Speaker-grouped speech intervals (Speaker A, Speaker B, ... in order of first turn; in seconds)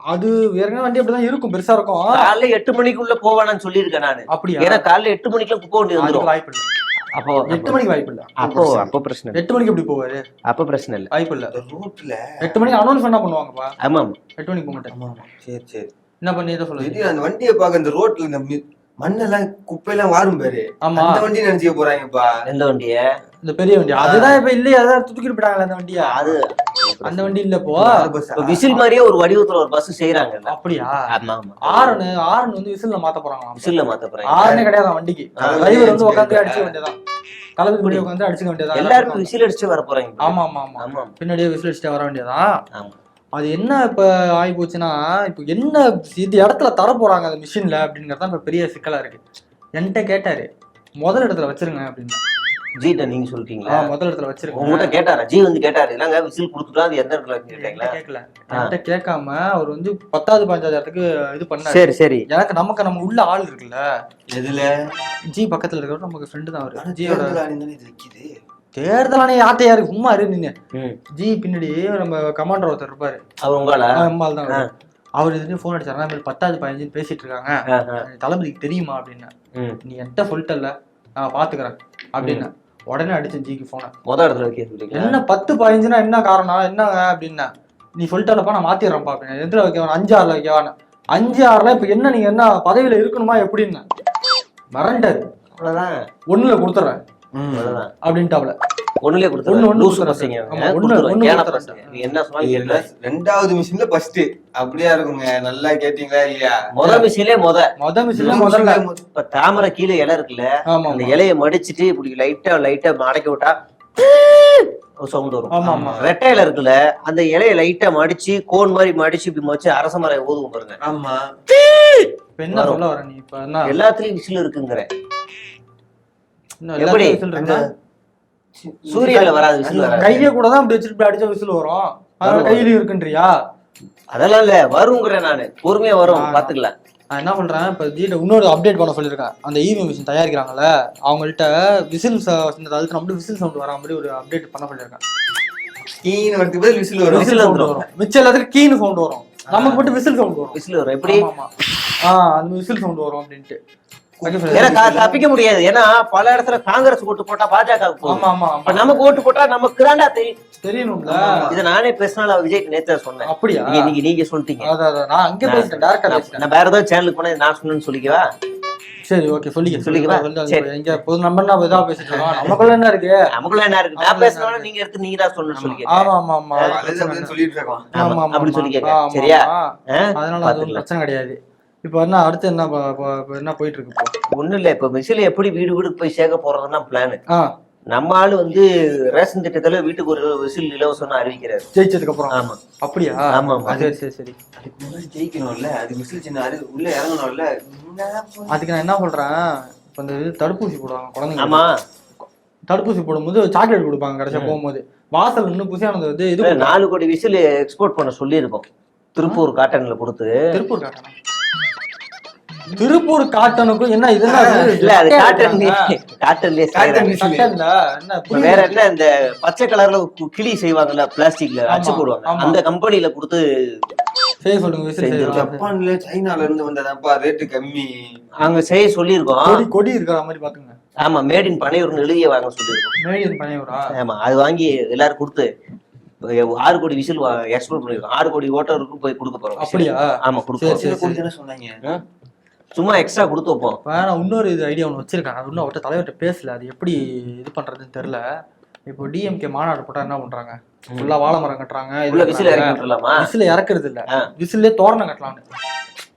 Speaker A: 0.1-2.3, 4.3-4.8, 6.0-6.7, 7.5-8.5, 9.3-10.2, 11.1-11.5, 12.4-13.8, 14.4-14.9, 16.2-17.1, 20.8-21.3, 23.4-26.4, 27.1-28.1, 30.5-31.1, 31.7-33.7, 34.3-37.0, 37.6-39.3, 40.2-42.6, 43.4-49.2, 49.8-50.5, 51.0-52.2, 53.7-55.0, 57.5-63.8, 65.3-67.4, 68.8-70.5, 71.2-73.2, 74.0-74.7, 75.2-79.3, 79.8-83.9, 84.9-93.8, 94.8-95.2, 96.3-97.0, 98.0-98.6, 99.5-102.1, 107.8-108.8, 110.7-111.2, 115.5-116.0, 122.3-123.8, 126.6-127.7, 129.0-133.3, 136.1-136.5, 137.1-145.0, 147.1-151.5, 152.0-153.6, 154.2-155.2, 158.1-159.2, 160.6-161.5, 163.3-163.9, 164.6-166.5, 169.1-173.2, 174.0-174.7, 175.9-177.3, 177.9-184.1, 191.8-194.3, 198.5-201.6, 202.7-206.8, 210.5-211.1, 212.8-215.8, 217.1-218.8, 221.7-222.6, 224.4-225.7, 229.4-230.8, 233.0-233.9, 239.6-241.2, 243.8-248.2, 248.9-255.4
Speaker B: 2.1-6.3, 7.1-7.8, 8.4-9.4, 10.5-11.1, 13.8-14.2, 22.5-23.0, 26.0-27.4, 28.4-30.5, 31.1-32.0, 33.6-34.6, 38.8-41.1, 52.8-53.9, 54.5-57.9, 61.6-62.3, 73.4-74.7, 77.7-78.0, 82.2-82.5, 84.1-85.2, 95.6-96.0, 97.5-97.9, 99.0-102.9, 106.7-107.6, 109.2-120.8, 122.5-122.8, 123.7-124.9, 126.8-127.2, 128.9-130.3, 132.2-132.7, 134.1-136.7, 147.1-147.8, 150.5-151.2, 154.5-160.3, 161.5-164.7, 165.4-168.3, 169.8-170.7, 173.3-176.1, 178.0-180.8, 184.3-187.2, 187.9-191.7, 192.3-192.6, 193.3-193.8, 201.4-201.7, 204.3-204.6, 206.4-208.6, 209.2-210.3, 214.8-217.1, 218.3-223.4, 225.0-225.5, 228.4-229.6, 231.0-232.9, 233.9-235.5, 236.2-240.8, 242.7-243.8, 252.1-253.3
Speaker C: 8.4-8.9, 11.5-12.6, 14.9-15.9, 16.8-22.3, 24.0-24.4, 27.8-28.8, 35.4-36.7, 64.3-64.9, 66.8-68.3, 97.3-97.8, 102.4-106.6, 108.1-109.0, 115.6-116.1, 120.8-121.3, 127.3-127.7, 128.6-130.0, 146.0-147.3, 149.5-149.9, 154.2-155.2, 161.1-161.6, 172.0-172.7, 175.6-175.8, 176.6-177.9, 193.7-193.9, 194.6-198.6, 214.2-214.8, 216.7-217.5, 225.3-228.0, 240.7-241.8